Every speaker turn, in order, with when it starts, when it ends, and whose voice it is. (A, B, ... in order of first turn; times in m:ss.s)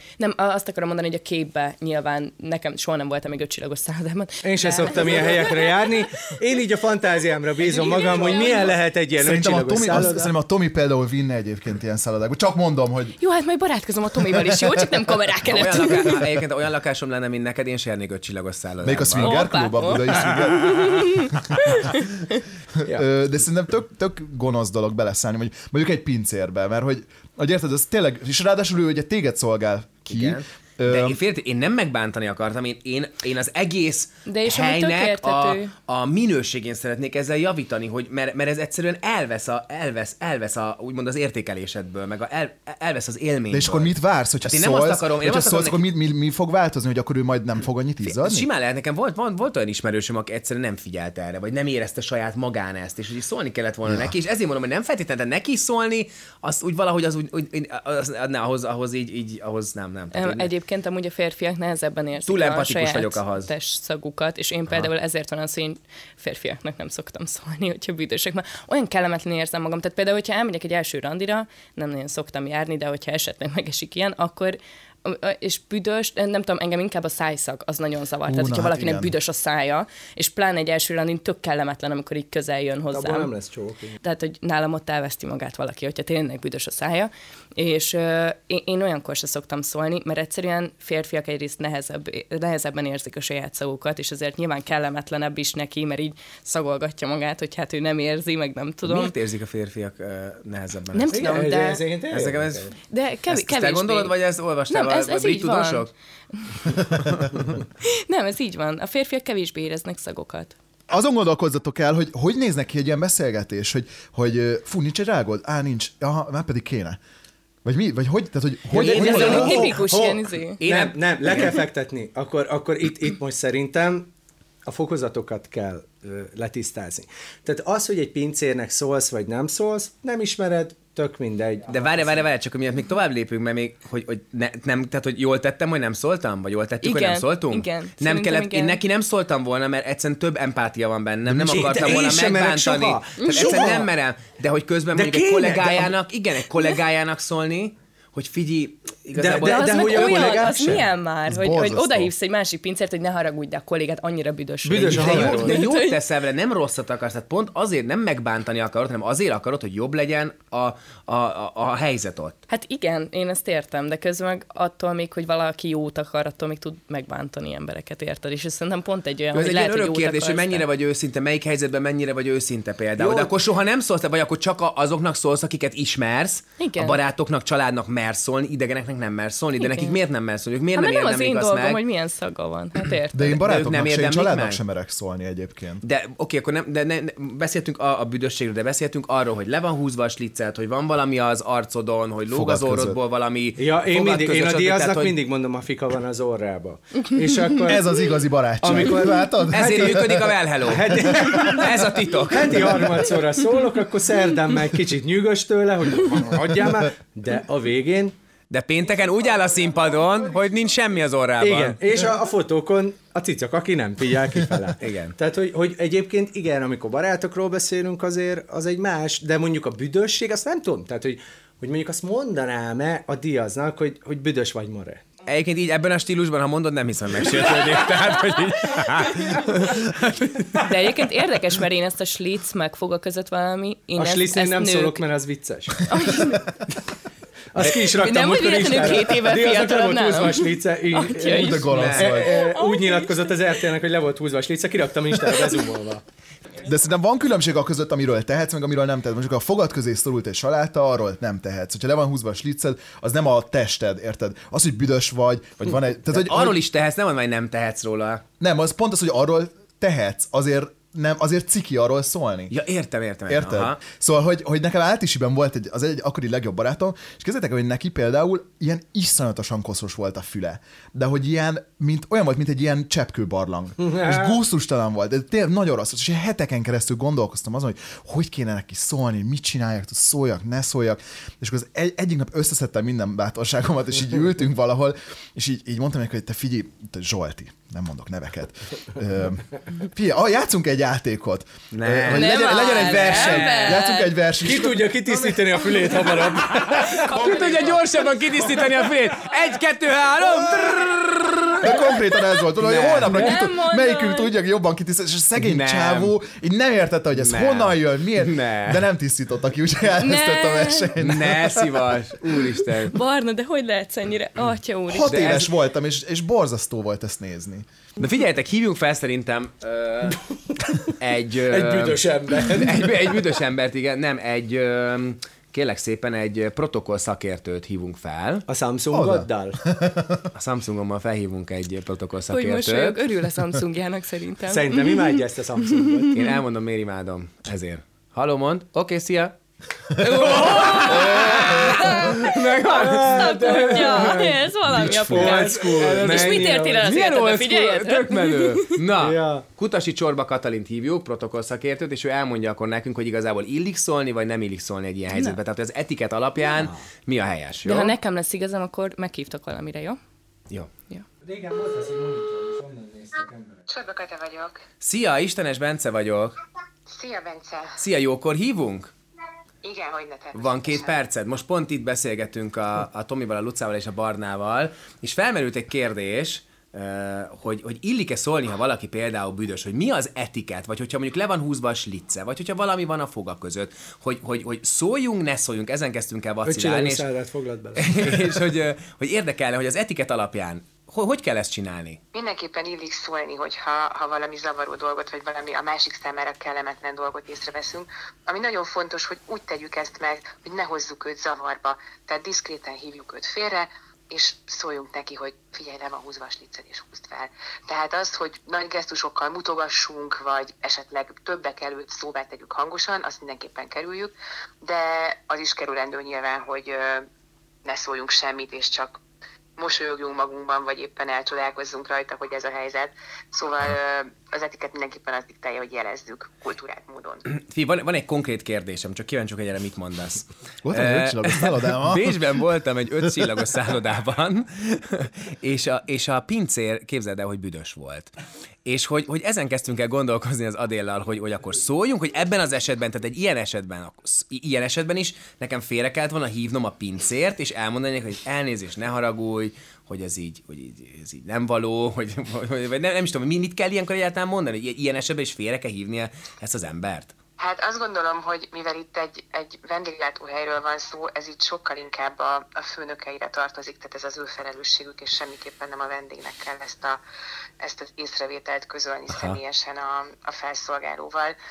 0:00.2-0:05.8 A
0:04.4-0:10.3 B
0:07.6-0:08.8 A
0:09.2-0:13.2 C
0:13.2-0:16.2 A
0:14.3-0:14.8 C
0:15.4-0:19.4 D
0:18.8-0:21.4 C
0:19.2-0:22.0 A
0:22.8-0:31.2 C
0:30.1-0:43.9 D
0:34.2-0:35.7 A
0:43.5-0:48.5 C
0:44.4-0:45.8 D
0:48.0-1:00.5 D
0:53.8-0:54.1 C
1:00.1-1:23.3 A
1:02.3-1:03.5 D
1:18.2-1:19.1 C
1:22.9-1:24.0 B
1:24.0-1:39.1 A
1:38.8-1:41.4 D
1:40.9-1:41.8 A
1:41.1-1:42.7 B
1:42.1-1:42.7 D
1:42.9-1:44.2 A
1:43.3-1:45.9 D
1:44.7-1:46.7 A
1:46.8-1:47.5 D
1:47.8-1:50.5 A
1:50.9-1:57.0 C
1:57.6-1:59.8 C
1:58.7-2:04.1 B
1:58.7-1:59.8 D
1:58.9-2:00.6 A
2:00.6-2:01.6 D
2:04.6-2:12.2 B
2:11.7-2:30.5 D
2:16.8-2:18.8 A
2:21.3-2:21.8 C
2:21.5-2:23.9 B
2:23.2-2:23.6 A
2:24.9-2:25.9 B
2:29.1-2:30.8 B
2:29.2-2:36.0 A
2:31.3-2:32.1 C
2:34.6-2:35.6 B
2:34.7-2:42.4 D
2:42.5-2:50.6 A
2:49.3-3:01.8 D
2:56.6-2:57.0 A
2:59.6-3:00.0 A
3:00.7-3:03.4 A
3:03.1-3:05.8 C
3:03.3-3:04.6 D
3:05.8-3:15.2 D
3:12.3-3:13.0 C
3:13.6-3:17.8 B
3:17.6-3:20.3 C
3:18.6-3:28.1 B
3:19.5-3:23.0 D
3:28.5-3:31.8 D
3:31.4-3:45.0 B
3:34.8-3:35.1 D
3:45.2-3:50.6 D
3:50.5-3:55.0 A
3:54.0-3:56.4 B
3:55.9-3:56.4 A
3:57.5-4:06.0 B
3:57.6-4:03.4 A
4:01.2-4:02.4 C
4:01.7-4:02.2 D
4:06.6-4:16.6 C
4:16.1-4:18.2 D
4:18.4-4:22.5 C
4:22.5-4:23.8 D
4:23.3-4:54.9 C
4:33.8-4:34.4 B
4:51.7-4:53.8 D
4:52.1-4:54.1 A
4:54.4-4:57.4 B
4:56.6-5:01.9 D
4:57.1-4:57.7 A
5:01.6-5:11.9 C
5:02.5-5:03.4 D
5:03.0-5:04.3 A
5:05.4-5:06.1 D
5:07.2-5:08.9 D
5:10.0-5:10.9 A
5:11.0-5:13.0 D
5:12.8-5:15.4 A
5:14.9-5:17.6 C
5:15.0-5:15.5 D
5:18.0-5:20.2 D
5:20.8-5:28.4 D
5:21.4-5:23.3 B
5:28.5-5:29.6 B
5:28.9-5:30.3 C
5:30.3-5:33.0 D
5:32.3-5:35.2 A
5:34.5-5:36.2 B
5:35.8-5:36.3 A
5:36.1-5:39.3 D
5:40.0-5:48.8 A
5:40.2-5:57.9 D
5:40.6-5:41.3 B
5:42.6-5:46.9 B
5:49.0-5:49.4 B
5:57.6-6:00.0 A
6:01.2-6:03.6 B
6:03.7-6:04.6 E
6:04.8-6:06.4 D
6:06.9-6:07.8 E
6:07.8-6:08.9 D
6:09.6-6:10.9 E
6:10.3-6:27.0 D
6:26.4-6:28.4 B
6:27.8-6:32.0 D
6:32.1-6:57.1 E
6:57.6-6:59.0 E
6:59.6-7:07.2 E
7:07.3-7:18.1 D
7:10.6-7:12.4 C
7:18.6-7:37.1 D
7:37.4-7:47.0 E
7:47.6-7:51.4 E
7:49.1-7:49.4 D